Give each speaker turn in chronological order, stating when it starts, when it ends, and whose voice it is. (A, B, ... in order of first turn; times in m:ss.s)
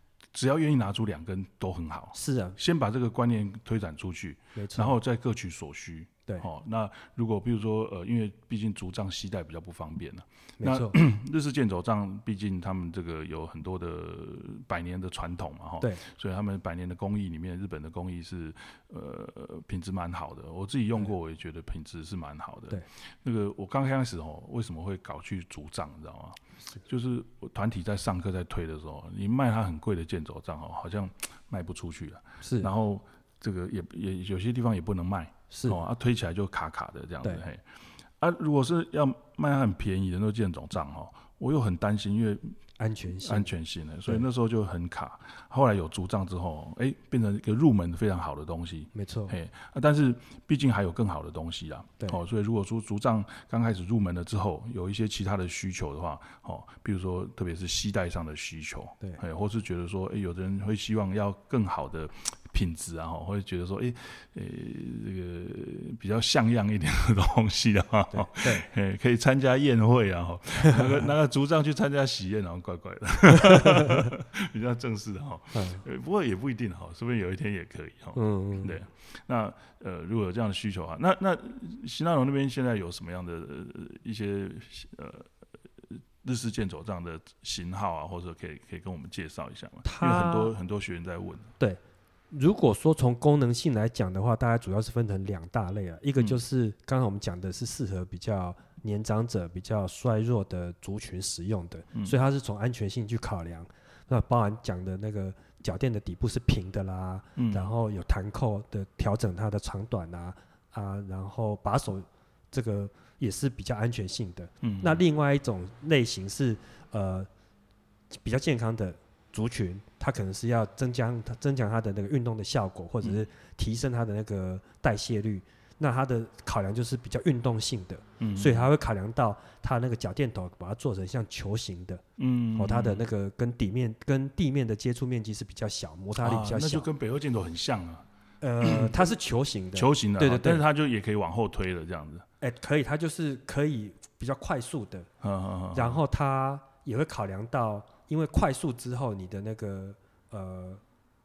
0:00.3-0:42.6 A
0:02.1-0:02.6 B
0:04.6-0:05.0 B
0:10.6-0:11.0 B
0:32.4-0:32.7 B
0:35.5-0:35.8 B
0:42.8-0:43.5 B
0:43.2-1:25.3 A
0:48.9-0:49.4 B
1:08.1-1:08.7 B
1:10.6-1:11.0 B
1:13.6-1:14.1 B
1:15.5-1:15.8 B
1:18.1-1:18.8 B
1:25.8-1:31.5 A
1:29.8-1:30.5 B
1:32.3-1:57.3 B
1:47.4-1:47.7 A
1:54.6-1:55.0 A
1:58.2-2:12.0 B
2:08.2-2:08.7 A
2:12.2-2:13.0 A
2:12.5-2:16.9 B
2:16.2-2:18.0 A
2:18.4-2:20.6 B
2:18.6-2:19.0 A
2:19.7-2:22.2 A
2:22.4-2:25.1 B
2:25.2-2:26.0 A
2:25.7-2:30.8 B